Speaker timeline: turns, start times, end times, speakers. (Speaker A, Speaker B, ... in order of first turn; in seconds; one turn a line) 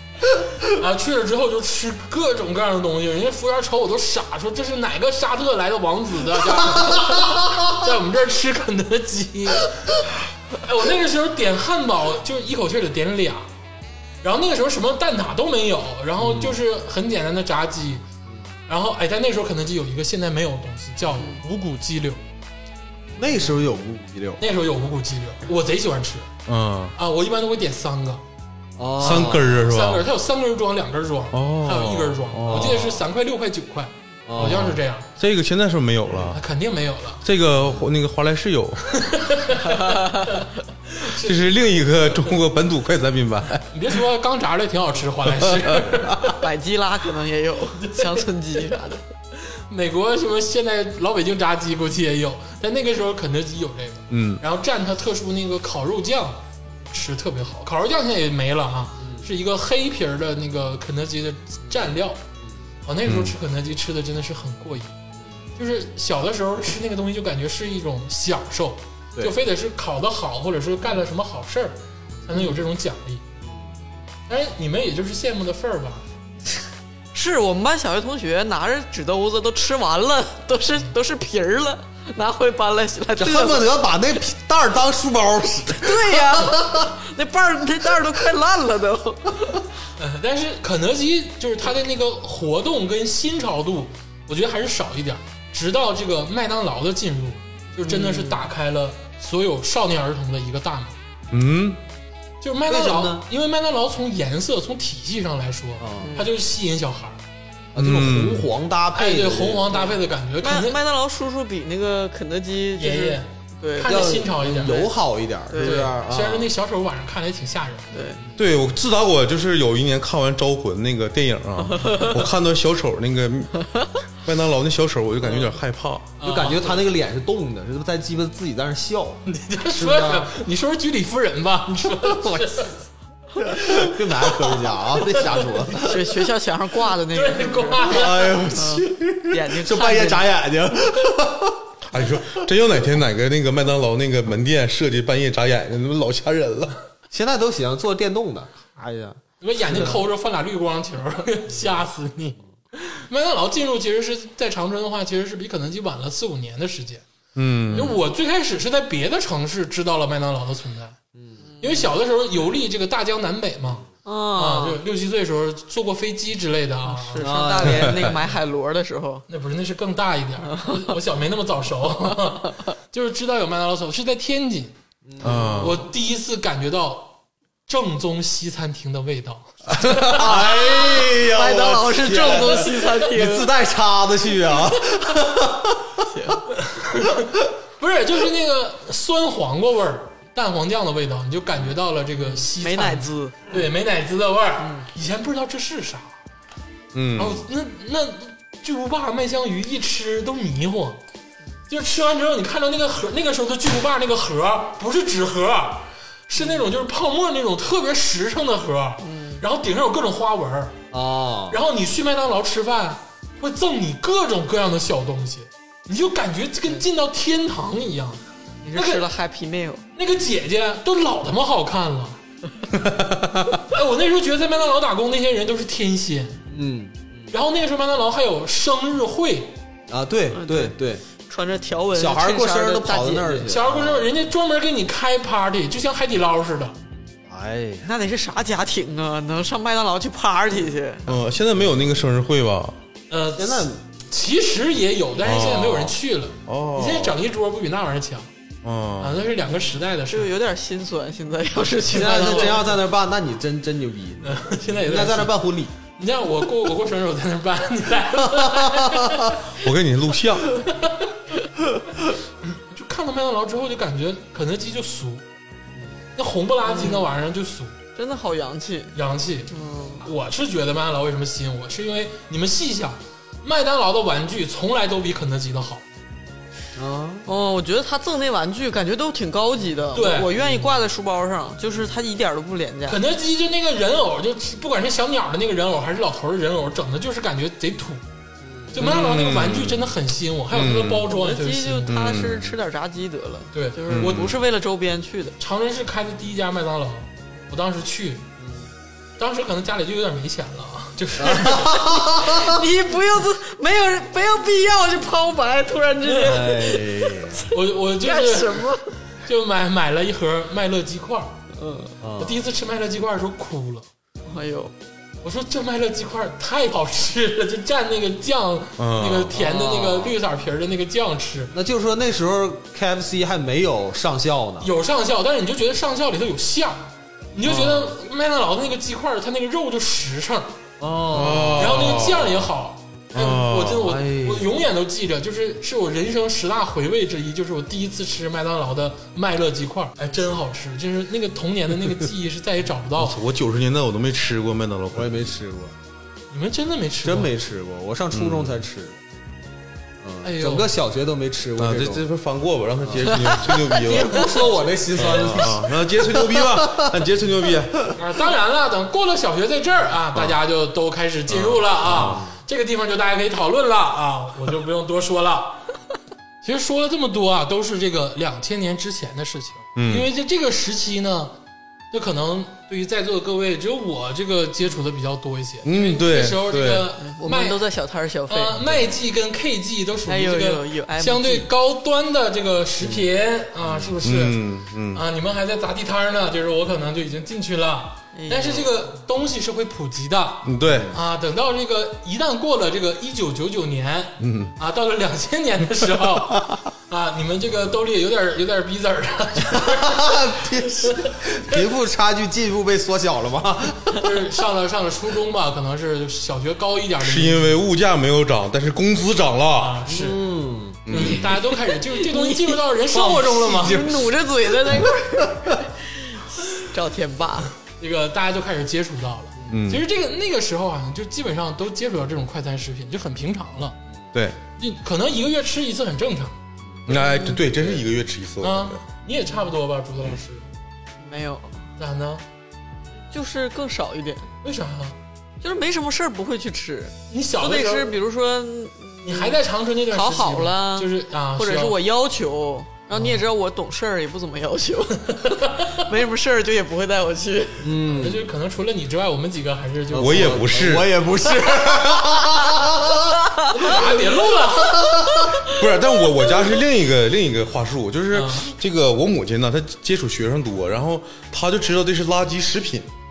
Speaker A: 0.3-10.1
Speaker A: 10.6-13.5
Speaker A: 14.2-18.0
Speaker B: 16.2-16.6
Speaker A: 18.7-22.2
Speaker B: 23.2-24.5
Speaker A: 24.4-26.3
Speaker C: 26.5-26.9
Speaker A: 27.0-28.2
Speaker B: 28.8-29.7
Speaker C: 29.0-30.1
Speaker A: 29.1-35.1
Speaker C: 31.3-32.9
Speaker B: 32.3-33.0
Speaker B: 34.2-34.8
Speaker C: 35.2-36.4
Speaker A: 36.3-37.2
Speaker C: 37.2-38.8
Speaker B: 37.5-37.9
Speaker A: 38.9-42.4
Speaker D: 39.6-40.4
Speaker C: 41.2-43.7
Speaker A: 43.7-46.4
Speaker C: 45.3-46.3
Speaker D: 46.4-49.0
Speaker A: 47.8-48.8
Speaker A: 49.4-62.2
Speaker C: 54.1-54.4
Speaker B: 59.0-59.3
Speaker B: 61.7-62.6
Speaker A: 62.9-65.0
Speaker C: 63.1-63.4
Speaker A: 65.6-73.2
Speaker B: 72.2-72.5
Speaker B: 73.4-73.7
Speaker A: 74.3-76.0
Speaker D: 77.1-83.7
Speaker B: 83.2-86.9
Speaker D: 85.7-89.6
Speaker A: 90.0-100.9
Speaker B: 97.8-98.4
Speaker C: 101.3-101.8
Speaker A: 102.4-107.2
Speaker B: 102.7-103.3
Speaker B: 105.8-106.2
Speaker D: 106.0-106.3
Speaker B: 107.7-110.0
Speaker C: 107.8-108.5
Speaker A: 108.9-110.8
Speaker D: 110.4-114.8
Speaker A: 112.8-114.9
Speaker B: 113.8-116.5
Speaker D: 115.5-115.9
Speaker A: 115.6-117.9
Speaker D: 117.9-118.2
Speaker B: 118.2-118.6
Speaker C: 118.4-123.7
Speaker D: 121.7-122.1
Speaker C: 124.2-126.1
Speaker A: 126.2-126.8
Speaker B: 126.2-130.3
Speaker A: 129.3-132.8
Speaker B: 131.9-132.6
Speaker B: 133.4-136.0
Speaker A: 133.6-135.9
Speaker D: 135.8-140.3
Speaker A: 137.1-138.4
Speaker B: 137.8-141.6
Speaker C: 141.9-146.8
Speaker B: 147.1-150.0
Speaker A: 149.4-157.0
Speaker C: 157.4-158.0
Speaker A: 157.7-161.0
Speaker D: 161.5-161.8
Speaker A: 161.6-167.3
Speaker D: 164.1-164.8
Speaker D: 166.8-169.2
Speaker B: 167.2-168.1
Speaker C: 167.7-168.1
Speaker A: 169.3-174.7
Speaker D: 170.5-170.9
Speaker D: 172.4-172.7
Speaker B: 175.1-175.8
Speaker C: 175.2-175.8
Speaker A: 175.4-177.1
Speaker A: 177.7-180.1
Speaker B: 179.8-185.8
Speaker D: 180.1-183.5
Speaker D: 186.1-186.4
Speaker A: 186.6-196.1
Speaker D: 192.2-193.4
Speaker D: 194.6-194.9
Speaker C: 196.9-197.4
Speaker A: 197.2-201.0
Speaker A: 201.7-210.8
Speaker D: 209.0-209.4
Speaker B: 210.9-211.6
Speaker A: 211.5-218.2
Speaker D: 218.6-219.8
Speaker A: 218.7-219.1
Speaker A: 219.9-222.2
Speaker A: 223.6-226.4
Speaker B: 226.5-227.3
Speaker A: 227.3-229.6
Speaker B: 229.9-231.0
Speaker D: 230.3-233.5
Speaker B: 231.9-234.1
Speaker A: 233.5-236.8
Speaker B: 237.3-237.9
Speaker D: 237.8-241.1
Speaker C: 241.1-242.8
Speaker A: 243.1-248.3
Speaker B: 243.4-243.8
Speaker C: 245.2-245.9
Speaker C: 246.5-247.2
Speaker C: 248.6-249.2
Speaker A: 249.0-250.3
Speaker D: 250.1-252.6
Speaker B: 251.9-255.7
Speaker A: 251.9-252.7
Speaker A: 254.2-255.3
Speaker A: 255.9-259.4
Speaker C: 259.6-260.6
Speaker A: 260.7-261.1
Speaker A: 262.5-265.2
Speaker A: 266.1-267.8
Speaker D: 266.6-267.1
Speaker D: 267.9-268.9
Speaker A: 268.9-275.8
Speaker D: 269.5-270.1
Speaker B: 276.8-277.3
Speaker D: 277.3-283.0
Speaker A: 279.9-280.3
Speaker A: 282.9-288.0
Speaker B: 288.4-288.8
Speaker A: 288.7-291.9
Speaker C: 288.8-289.9
Speaker C: 290.5-291.1
Speaker D: 291.1-295.4
Speaker C: 291.9-292.6
Speaker A: 293.5-294.2
Speaker C: 293.9-294.3
Speaker A: 295.4-298.2
Speaker B: 298.4-298.7
Speaker A: 299.2-302.0
Speaker B: 301.2-302.6
Speaker D: 302.2-307.5
Speaker B: 306.2-307.4
Speaker A: 307.5-311.4
Speaker D: 308.0-308.9
Speaker D: 311.6-311.9
Speaker B: 312.0-312.4
Speaker A: 312.2-313.9
Speaker D: 314.3-314.7
Speaker A: 315.2-321.5
Speaker C: 318.8-319.4
Speaker B: 319.4-320.1
Speaker B: 321.5-324.7
Speaker A: 324.6-330.5
Speaker B: 327.4-327.9
Speaker B: 330.8-332.0
Speaker C: 331.1-332.5
Speaker A: 331.6-343.2
Speaker C: 333.1-334.0
Speaker B: 333.8-334.6
Speaker C: 343.0-345.2
Speaker B: 344.9-345.7
Speaker A: 346.3-347.3
Speaker B: 347.0-349.0
Speaker C: 348.1-348.6
Speaker B: 350.0-352.1
Speaker A: 350.2-350.7
Speaker C: 351.6-354.3
Speaker B: 352.8-356.9
Speaker C: 354.9-357.9
Speaker A: 357.9-365.7
Speaker C: 361.3-362.2
Speaker B: 361.8-362.3
Speaker A: 366.4-371.3
Speaker C: 369.8-370.1
Speaker A: 371.9-377.6
Speaker C: 375.6-376.9
Speaker D: 377.0-378.6
Speaker A: 378.3-384.4
Speaker D: 380.1-381.5
Speaker B: 382.8-383.1
Speaker B: 383.6-383.9
Speaker C: 384.0-385.1
Speaker A: 384.9-400.3
Speaker D: 388.1-388.7
Speaker C: 390.4-390.9
Speaker B: 390.6-391.0
Speaker C: 394.2-394.6
Speaker B: 399.4-404.0
Speaker A: 400.8-401.6
Speaker A: 403.5-407.6
Speaker C: 407.0-409.8
Speaker A: 409.6-410.2
Speaker B: 409.9-411.3
Speaker C: 410.9-411.3
Speaker A: 410.9-413.9
Speaker D: 411.9-412.6
Speaker B: 412.9-413.9
Speaker D: 413.5-417.5
Speaker A: 417.6-423.8
Speaker C: 419.5-419.9
Speaker A: 424.6-426.4
Speaker B: 426.6-427.0
Speaker C: 426.9-428.8
Speaker D: 426.9-427.4
Speaker B: 427.6-427.8
Speaker A: 428.4-430.4
Speaker D: 431.0-431.6
Speaker A: 431.8-432.2
Speaker D: 433.1-434.3
Speaker A: 434.4-435.0
Speaker D: 435.4-439.4
Speaker A: 437.1-437.9
Speaker A: 439.1-441.8
Speaker D: 439.9-447.7
Speaker A: 442.9-443.2
Speaker A: 445.2-445.8
Speaker B: 447.6-448.3
Speaker A: 447.9-450.6
Speaker B: 449.9-453.1
Speaker C: 449.9-450.9
Speaker D: 453.2-453.8
Speaker A: 453.5-454.9
Speaker D: 455.1-455.6
Speaker C: 455.4-462.9
Speaker A: 458.1-458.5